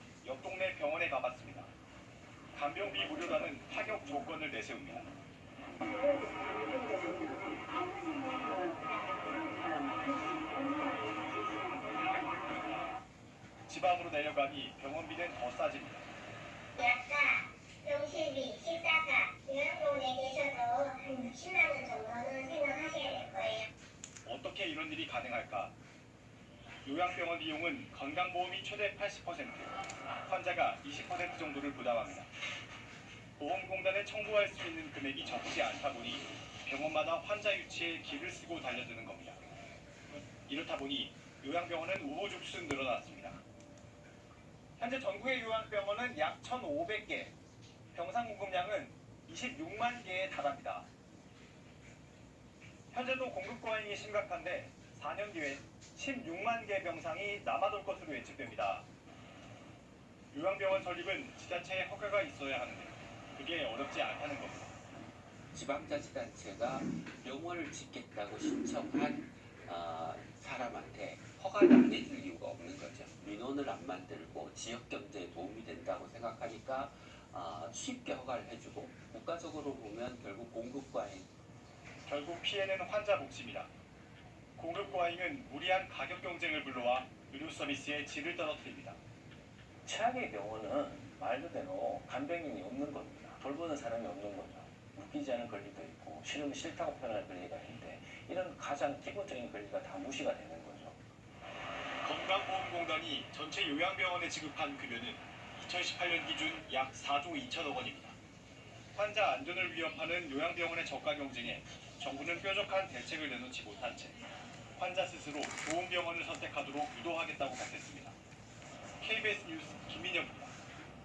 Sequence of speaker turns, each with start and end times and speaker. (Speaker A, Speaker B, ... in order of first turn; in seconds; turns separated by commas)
Speaker A: 0.2-1.7, Speaker A: 2.5-5.1, Speaker B: 2.8-3.2, Speaker C: 5.8-12.9, Speaker A: 13.7-16.1, Speaker C: 16.8-23.7, Speaker A: 24.2-25.7, Speaker A: 26.8-29.7, Speaker A: 30.2-32.3, Speaker A: 33.4-39.4, Speaker A: 40.5-43.4, Speaker A: 44.8-47.3, Speaker A: 47.9-50.9, Speaker A: 52.9-58.8, Speaker A: 60.3-64.7, Speaker B: 65.5-81.3, Speaker B: 82.1-82.6, Speaker A: 82.1-83.7, Speaker B: 83.2-83.6, Speaker B: 84.6-85.6, Speaker A: 84.6-89.0, Speaker B: 86.5-87.4, Speaker B: 88.3-89.0, Speaker D: 89.8-101.0, Speaker A: 102.0-108.2, Speaker A: 109.0-114.2, Speaker A: 114.8-118.2, Speaker A: 119.0-120.5